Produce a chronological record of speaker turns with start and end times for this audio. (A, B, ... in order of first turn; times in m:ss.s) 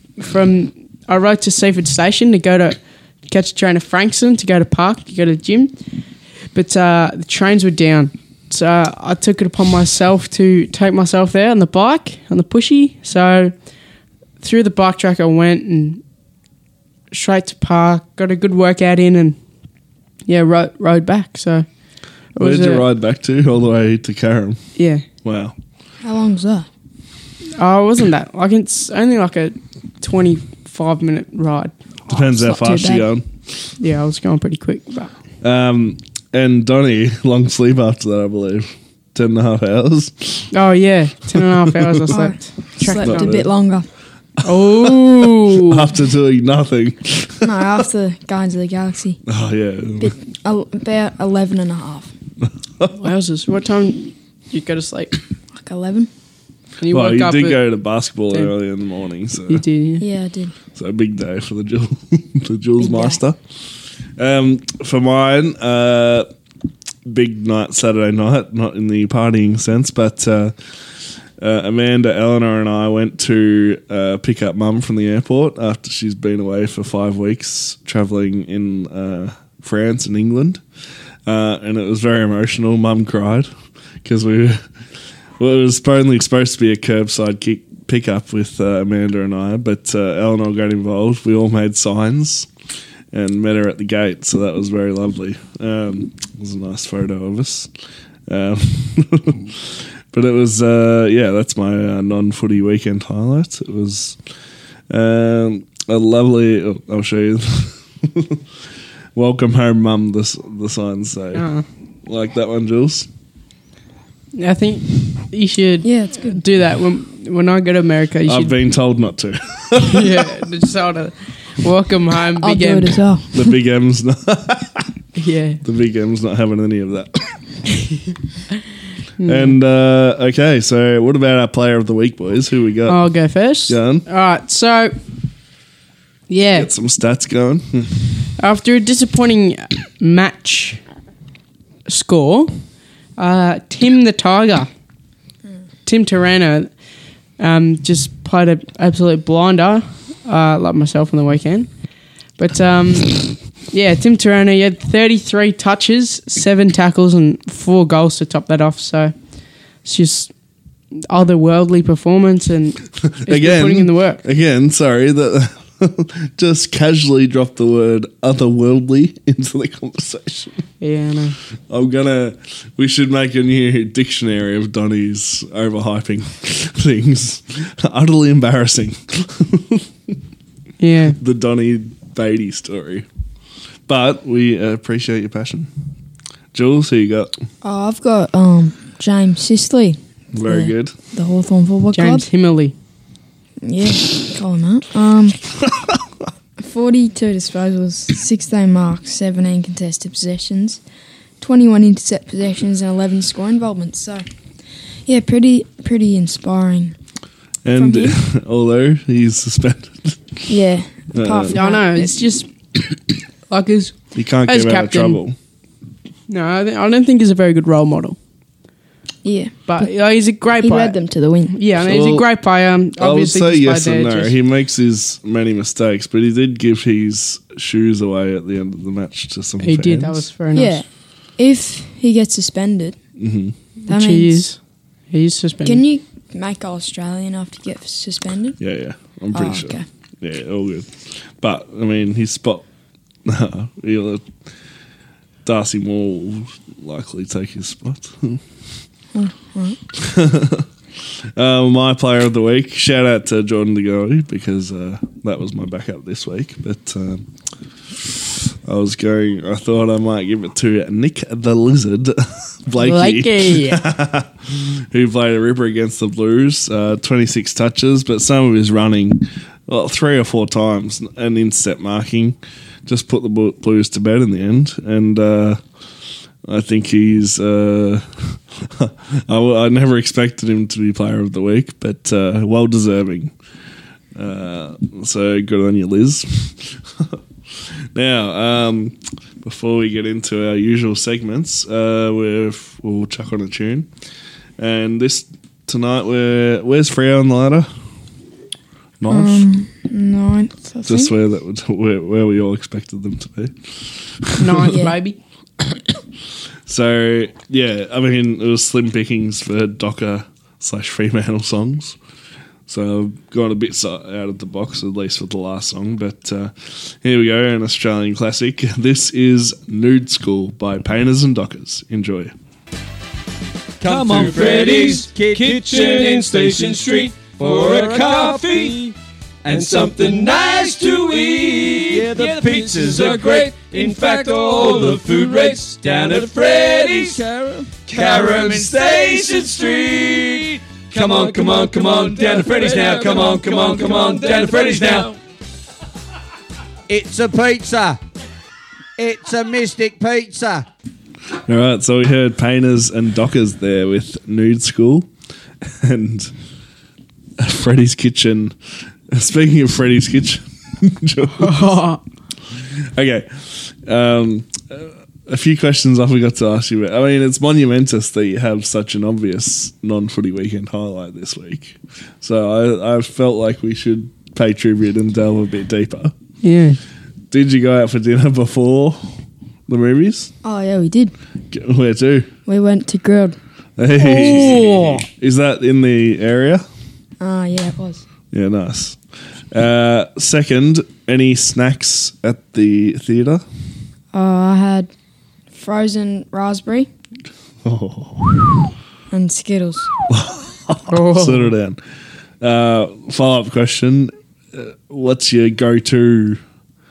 0:00.2-0:05.7 A
0:06.5-0:13.5 A
0:14.4-0:16.0 A
0:17.1-0:19.4 A
0:20.3-0:21.6 A
0:22.3-0:22.8 A
0:22.4-0:24.6 B
0:24.8-0:25.0 A
0:25.2-0:25.5 B
0:26.0-0:26.7 C
0:27.6-0:32.1 A
0:32.1-0:33.7 B
0:32.4-0:33.1 C
0:33.8-0:35.1 A
0:35.4-0:40.5 B
0:40.5-0:43.4 A
0:41.8-0:42.1 B
0:42.1-0:43.9 C
0:43.0-0:43.5 B
0:44.4-0:45.8 A
0:44.6-0:47.7 B
0:47.4-0:49.2 C
0:49.2-0:50.1 B
0:50.0-0:52.1 C
0:53.0-0:55.2 A
0:55.5-0:56.1 C
0:56.8-0:57.6 A
0:56.9-0:59.6 B
0:59.5-1:00.0 A
1:00.0-1:00.5 C
1:00.8-1:03.4 B
1:02.8-1:03.2 C
1:04.2-1:06.3 B
1:07.0-1:10.5 B
1:11.4-1:20.6 B
1:21.2-1:23.5 B
1:24.0-1:24.6 B
1:25.4-1:32.5 B
1:33.1-1:37.7 B
1:38.3-1:44.2 B
1:44.9-1:48.4 B
1:49.1-1:51.5 B
1:51.3-1:51.6 A
1:52.0-1:53.1 B
1:54.3-1:58.5 A
1:55.8-1:56.4 C
1:58.3-2:00.1 B
1:59.8-2:03.0 A
2:02.4-2:03.6 C
2:03.3-2:04.9 B
2:05.2-2:05.6 A
2:05.6-2:07.4 B
2:09.2-2:09.6 A
2:09.2-2:13.0 B
2:12.9-2:15.0 A
2:13.7-2:14.0 B
2:16.3-2:16.7 A
2:16.5-2:18.1 B
2:18.4-2:20.8 A
2:21.8-2:22.6 A
2:23.2-2:24.7 A
2:25.8-2:26.7 A
2:27.4-2:31.7 A
2:32.4-2:39.1 A
2:39.8-2:40.3 A
2:40.9-2:44.2 A
2:43.2-2:50.6 B
2:50.8-2:51.3 A
2:51.7-3:00.1 B
3:00.8-3:01.2 A
3:01.2-3:03.0 B
3:03.9-3:05.7 B
3:06.5-3:07.3 B
3:07.6-3:12.2 C
3:10.3-3:10.9 B
3:11.9-3:12.7 A
3:13.6-3:15.5 C
3:16.6-3:20.8 C
3:21.4-3:24.2 C
3:25.0-3:27.0 C
3:27.6-3:30.5 B
3:27.7-3:28.1 C
3:30.5-3:32.2 C
3:31.1-3:31.6 B
3:31.5-3:32.5 A
3:33.5-3:33.9 A
3:34.1-3:35.3 B
3:34.4-3:35.2 A
3:36.3-3:38.2 A
3:39.2-3:39.6 C
3:39.7-3:44.3 A
3:40.6-3:41.5 C
3:41.7-3:42.2 B
3:43.0-3:50.2 B
3:49.6-3:50.8 A
3:50.5-3:50.8 C
3:51.4-3:53.0 C
3:53.2-3:53.5 B
3:53.9-3:54.6 A
3:53.9-3:54.4 C
3:55.1-3:55.8 A
3:55.6-3:58.6 C
3:58.6-4:02.6 B
3:59.3-3:59.8 C
4:03.2-4:04.2 B
4:05.4-4:08.4 B
4:09.1-4:09.8 C
4:10.0-4:10.6 B
4:11.4-4:17.2 B
4:18.0-4:32.4 B
4:22.8-4:23.8 A
4:32.9-4:35.6 B
4:36.4-4:43.3 B
4:44.1-4:47.2 B
4:47.9-4:53.9 B
4:54.6-4:57.7 B
4:59.0-4:59.5 B
4:59.1-5:01.1 C
5:00.8-5:04.6 B
5:04.4-5:05.2 A
5:04.6-5:04.9 C
5:06.7-5:12.0 B
5:12.7-5:22.3 B
5:23.8-5:45.2 D
5:23.8-5:26.1 E
5:27.5-5:28.6 E
5:31.9-5:33.0 E
5:37.0-5:37.7 E
5:42.8-5:43.1 E
5:46.9-5:48.0 E
5:49.0-5:50.6 E
5:51.5-5:55.1 B
5:55.6-5:56.3 B
5:57.4-5:58.5 B
5:59.1-6:01.8 B
6:01.4-6:02.0 A
6:02.9-6:16.1 B
6:16.4-6:16.8 A
6:17.3-6:19.2 B
6:19.7-6:20.3 B
6:20.4-6:21.1 C
6:21.5-6:22.3 B
6:22.4-6:23.4 C
6:23.8-6:26.6 B
6:24.0-6:25.0 A
6:27.2-6:28.0 C
6:28.3-6:29.0 B
6:29.5-6:33.4 B
6:34.1-6:34.9 C
6:35.5-6:36.9 C
6:37.6-6:38.7 B
6:39.1-6:39.9 C
6:40.1-6:41.8 B
6:40.9-6:41.5 A
6:42.4-6:46.4 B